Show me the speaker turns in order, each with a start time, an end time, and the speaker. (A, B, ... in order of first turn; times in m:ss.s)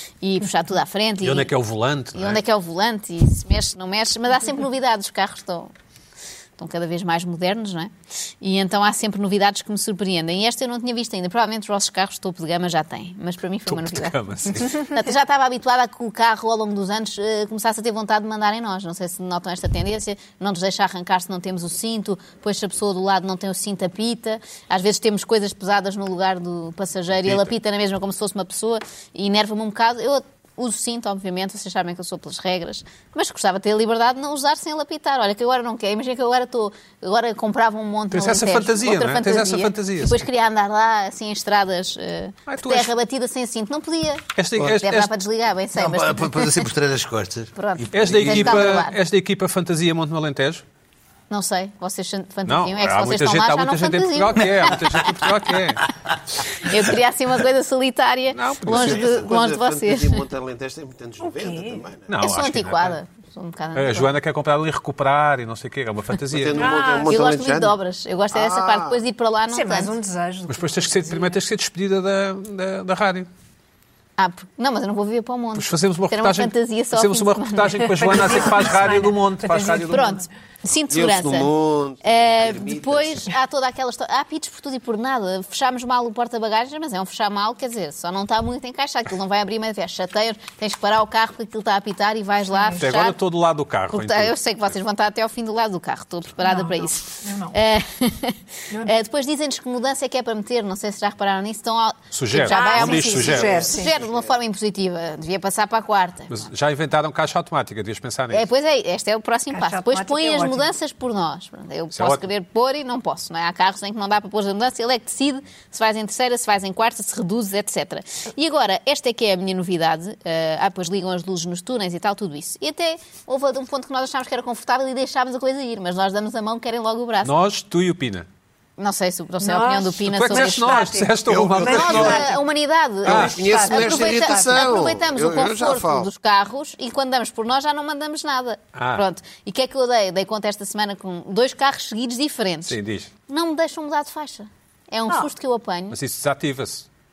0:00.2-0:01.5 A
0:01.2-0:02.4 B
0:02.1-0:05.7 A
0:06.6-0:46.7 A
0:13.7-0:14.9 B
0:27.2-0:27.5 B
0:38.1-0:40.2 B
0:42.5-0:42.9 B
0:44.4-0:45.1 B
0:45.7-0:48.8 C
0:47.5-0:49.0 A
0:47.9-0:50.6 B
0:51.3-0:54.8 A
0:52.4-0:55.8 B
0:54.6-0:55.3 C
0:56.6-1:00.2 A
0:58.3-0:59.1 B
0:58.6-1:02.1 D
1:01.2-1:01.8 E
1:02.1-1:03.0 B
1:02.2-1:04.1 A
1:03.7-1:06.8 B
1:06.3-1:07.8 D
1:06.5-1:07.2 E
1:07.1-1:09.9 A
1:08.3-1:09.0 D
1:09.5-1:11.4 E
1:10.5-1:13.3 B
1:14.2-1:18.6 A
1:15.5-1:20.2 B
1:17.9-1:20.2 E
1:19.9-1:21.5 A
1:20.9-1:23.3 D
1:22.0-1:33.2 A
1:32.5-1:32.8 E
1:32.8-1:34.3 B
1:33.9-1:46.4 A
1:36.4-1:37.6 E
1:42.1-1:43.6 B
1:42.4-1:43.9 E
1:43.0-1:44.4 D
1:46.3-1:48.5 B
1:48.3-2:07.3 A
1:49.5-1:50.7 E
1:51.9-1:52.2 B
2:07.2-2:08.3 B
2:08.8-2:10.9 A
2:09.4-2:12.4 E
2:10.0-2:12.3 B
2:11.2-2:12.3 D
2:11.6-2:22.8 A
2:13.0-2:13.4 B
2:13.0-2:14.9 E
2:13.1-2:16.1 D
2:18.7-2:19.0 B
2:22.7-2:23.1 B
2:23.3-2:26.0 A
2:25.9-2:26.8 B